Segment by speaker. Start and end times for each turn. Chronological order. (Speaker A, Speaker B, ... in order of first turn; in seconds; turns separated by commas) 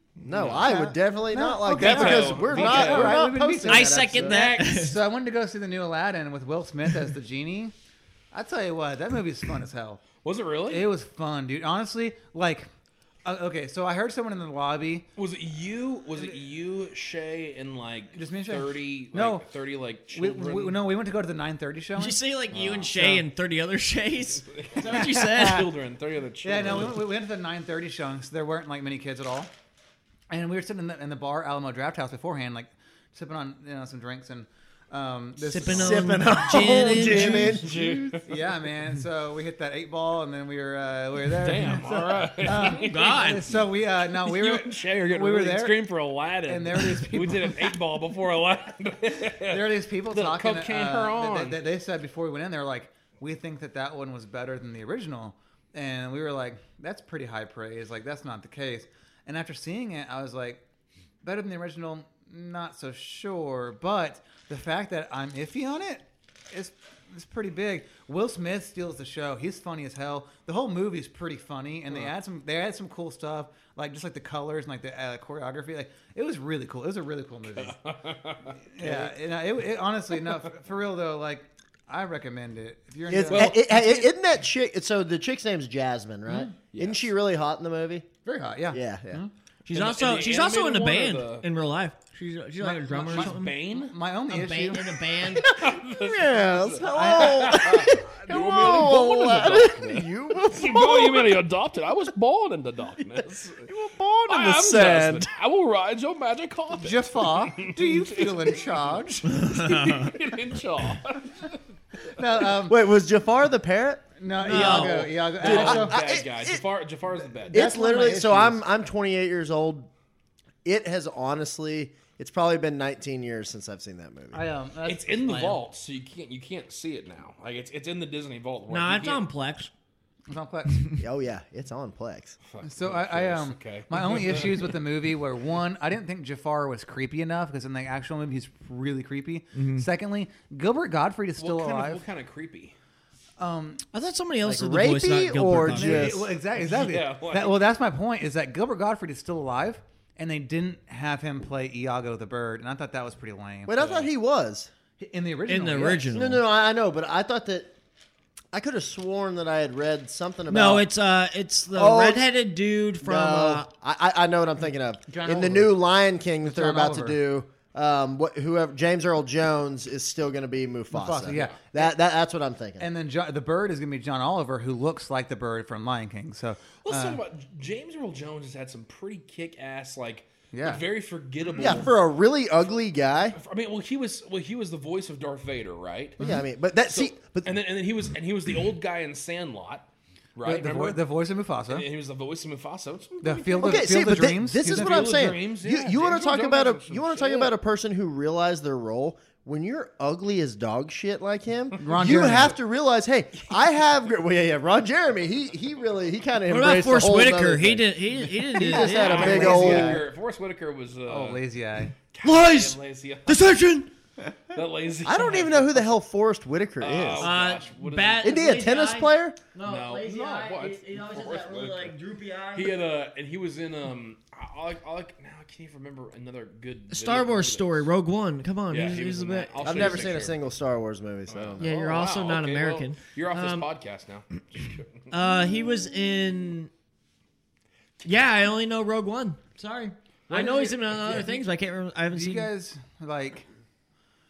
Speaker A: 0.2-4.3, Speaker B: 0.3-0.7, Speaker C: 0.6-7.7, Speaker B: 1.7-3.3, Speaker D: 3.6-5.0, Speaker B: 4.2-4.8, Speaker C: 8.3-10.1, Speaker B: 10.2-10.9, Speaker C: 10.7-12.7, Speaker C: 13.2-15.1, Speaker B: 15.2-20.9, Speaker C: 18.1-19.4, Speaker C: 20.1-23.2, Speaker D: 21.9-25.7, Speaker B: 24.5-27.1, Speaker C: 24.8-25.7, Speaker C: 26.4-29.5, Speaker C: 30.3-37.6, Speaker D: 35.4-37.6, Speaker A: 35.6-38.2, Speaker B: 37.2-38.2, Speaker C: 38.2-45.9, Speaker B: 41.3-43.5, Speaker D: 42.6-43.5, Speaker B: 44.2-51.6, Speaker C: 46.5-47.6, Speaker C: 49.5-60.6, Speaker C: 61.2-77.8, Speaker B: 77.5-79.1, Speaker C: 78.7-84.1, Speaker A: 83.1-88.1, Speaker B: 83.3-83.6, Speaker C: 86.3-86.5, Speaker B: 86.7-87.1, Speaker C: 88.2-89.3, Speaker A: 88.7-89.2, Speaker D: 89.7-93.6, Speaker B: 89.7-91.5, Speaker C: 92.6-94.8, Speaker B: 93.0-93.9, Speaker D: 94.3-95.5, Speaker B: 95.4-103.7, Speaker A: 95.5-101.4, Speaker C: 96.8-97.9, Speaker A: 103.6-105.3, Speaker B: 104.3-111.5, Speaker C: 106.7-109.4, Speaker D: 109.2-110.1, Speaker C: 112.2-112.8, Speaker A: 112.6-116.6, Speaker C: 114.2-116.0, Speaker D: 114.4-115.1, Speaker B: 115.3-117.6, Speaker C: 117.4-118.6, Speaker A: 117.5-119.9, Speaker A: 120.6-124.4, Speaker C: 124.3-125.6, Speaker B: 124.8-129.2, Speaker D: 128.7-129.7, Speaker C: 130.3-130.9, Speaker A: 131.0-132.4, Speaker B: 132.5-134.8, Speaker C: 132.6-142.0, Speaker D: 139.5-139.9, Speaker B: 141.4-142.7, Speaker C: 143.4-143.8, Speaker D: 143.9-146.2, Speaker A: 144.4-146.3, Speaker C: 145.7-154.1, Speaker B: 146.5-147.6, Speaker A: 153.7-154.7, Speaker C: 155.0-156.1, Speaker D: 155.5-156.4, Speaker A: 156.1-157.7, Speaker A: 158.5-160.9, Speaker D: 160.5-163.7, Speaker A: 161.7-162.3, Speaker A: 163.0-172.9, Speaker C: 165.1-165.8, Speaker C: 166.4-167.2, Speaker C: 170.9-171.6, Speaker B: 171.3-171.6, Speaker C: 172.8-177.2, Speaker B: 176.8-181.9, Speaker C: 180.5-180.8, Speaker A: 181.6-183.4, Speaker B: 183.3-186.2, Speaker A: 186.2-187.5, Speaker B: 186.9-191.0, Speaker C: 190.4-191.8, Speaker B: 191.6-193.9, Speaker C: 193.2-195.3, Speaker A: 193.6-207.9, Speaker B: 194.6-197.5, Speaker C: 201.8-202.6, Speaker D: 206.5-210.0, Speaker A: 208.5-210.1, Speaker B: 208.8-211.4, Speaker C: 209.3-209.5, Speaker C: 211.1-211.9, Speaker B: 212.1-213.6, Speaker D: 212.2-213.9, Speaker B: 214.5-216.0, Speaker A: 215.0-217.3, Speaker B: 216.8-218.4, Speaker D: 217.2-222.8, Speaker A: 218.2-219.4, Speaker B: 219.6-221.9, Speaker B: 222.5-227.9, Speaker D: 226.9-230.1, Speaker B: 228.7-230.4, Speaker A: 229.6-231.7, Speaker B: 231.3-235.1, Speaker D: 231.6-233.7, Speaker D: 235.1-236.7, Speaker D: 238.0-242.5, Speaker B: 240.3-241.2, Speaker C: 242.1-243.4